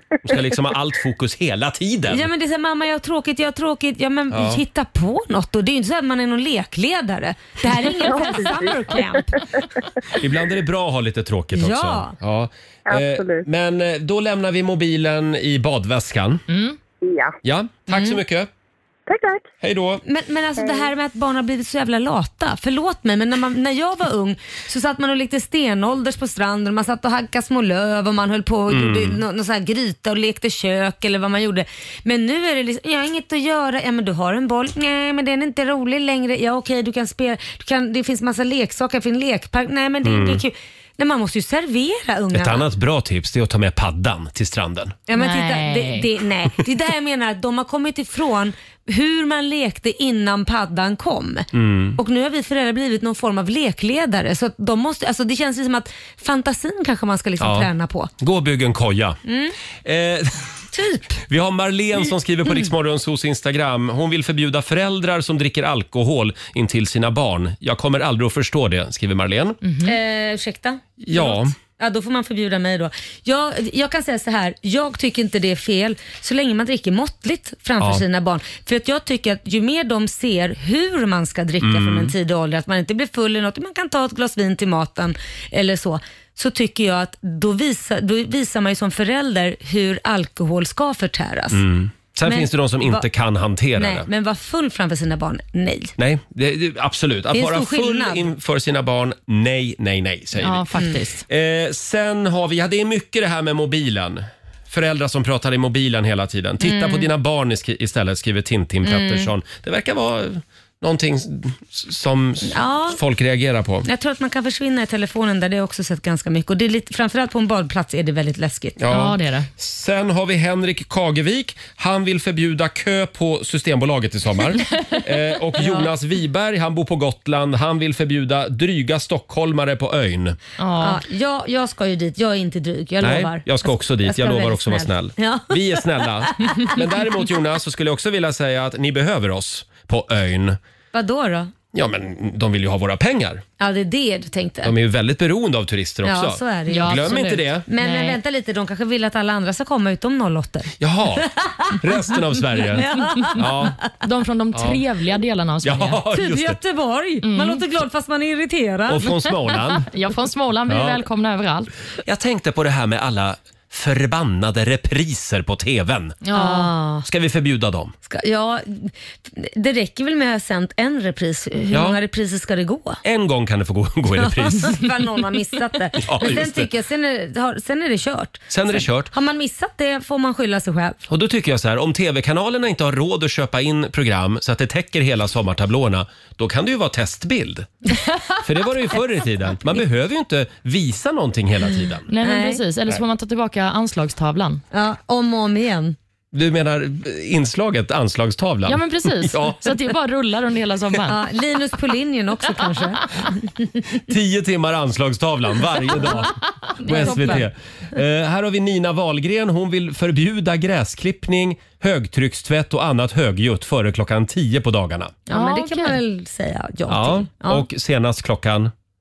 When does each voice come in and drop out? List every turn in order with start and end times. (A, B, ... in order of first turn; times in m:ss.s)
0:00.2-0:02.3 A
0:02.1-0:09.4 B
0:04.3-0:04.6 A
0:08.1-0:09.0 C
0:10.1-0:16.4 A
0:11.5-0:12.1 B
0:12.9-0:13.5 C
0:16.5-0:16.8 D
0:17.0-0:17.4 C
0:17.4-0:18.5 A
0:17.9-0:18.2 B
0:19.1-0:19.5 C
0:19.6-0:20.0 A
0:20.0-0:42.7 B
0:20.6-0:20.9 C
0:28.7-0:29.2 A
0:40.0-0:40.4 A
0:42.3-0:45.0 A
0:45.1-0:58.1 B
0:45.1-0:46.1 D
0:51.5-0:52.0 A
0:57.4-0:59.2 A
0:59.3-0:59.6 B
0:59.8-1:00.4 A
1:00.7-1:01.1 B
1:01.3-1:09.6 A
1:09.6-1:10.0 D
1:09.8-1:31.6 B
1:11.0-1:11.6 A
1:21.6-1:22.1 A
1:31.5-1:34.1 A
1:32.3-1:33.0 B
1:33.8-1:35.9 B
1:36.0-1:40.7 A
1:37.3-1:38.3 B
1:40.4-1:41.2 D
1:41.3-1:53.9 A
1:46.6-1:47.1 B
1:48.8-1:49.3 B
1:52.5-1:53.0 B
1:53.8-1:58.8 B
1:58.8-2:10.4 A
1:58.9-1:59.5 D
2:04.7-2:05.0 D
2:05.6-2:05.9 B
2:10.6-2:11.0 D
2:10.8-2:15.9 B
2:13.0-2:20.6 A
2:16.4-2:16.8 B
2:20.9-2:21.5 B
2:21.7-2:23.4 A
2:23.6-2:24.7 B
2:24.6-2:27.7 A
2:26.0-2:31.9 B
2:26.7-2:28.2 D
2:30.8-2:31.3 A
2:31.8-2:33.8 A
2:32.6-2:33.7 B
2:34.0-2:36.0 D
2:34.5-2:34.8 A
2:35.6-2:36.6 A
2:36.1-2:39.1 B
2:37.2-2:37.6 D
2:38.9-2:39.9 A
2:39.5-2:41.7 D
2:40.7-2:41.0 A
2:42.0-2:46.2 A
2:46.2-2:46.7 D
2:46.3-2:47.1 B
2:47.1-2:47.9 A
2:48.1-2:53.0 B
2:51.7-2:52.0 A
2:53.0-2:54.8 A
2:54.2-3:01.0 B
2:56.0-2:56.7 A
2:58.5-2:59.1 A
3:01.1-3:07.7 A
3:08.4-3:12.1 A
3:12.1-3:14.6 D
3:12.2-3:12.6 B
3:14.7-3:16.0 B
3:16.3-3:19.7 A
3:18.7-3:21.2 D
3:21.1-3:23.8 B
3:24.1-3:35.2 A
3:26.8-3:27.5 D
3:26.8-3:27.5 B
3:35.3-3:37.6 B
3:35.3-3:36.0 D
3:36.9-3:38.7 A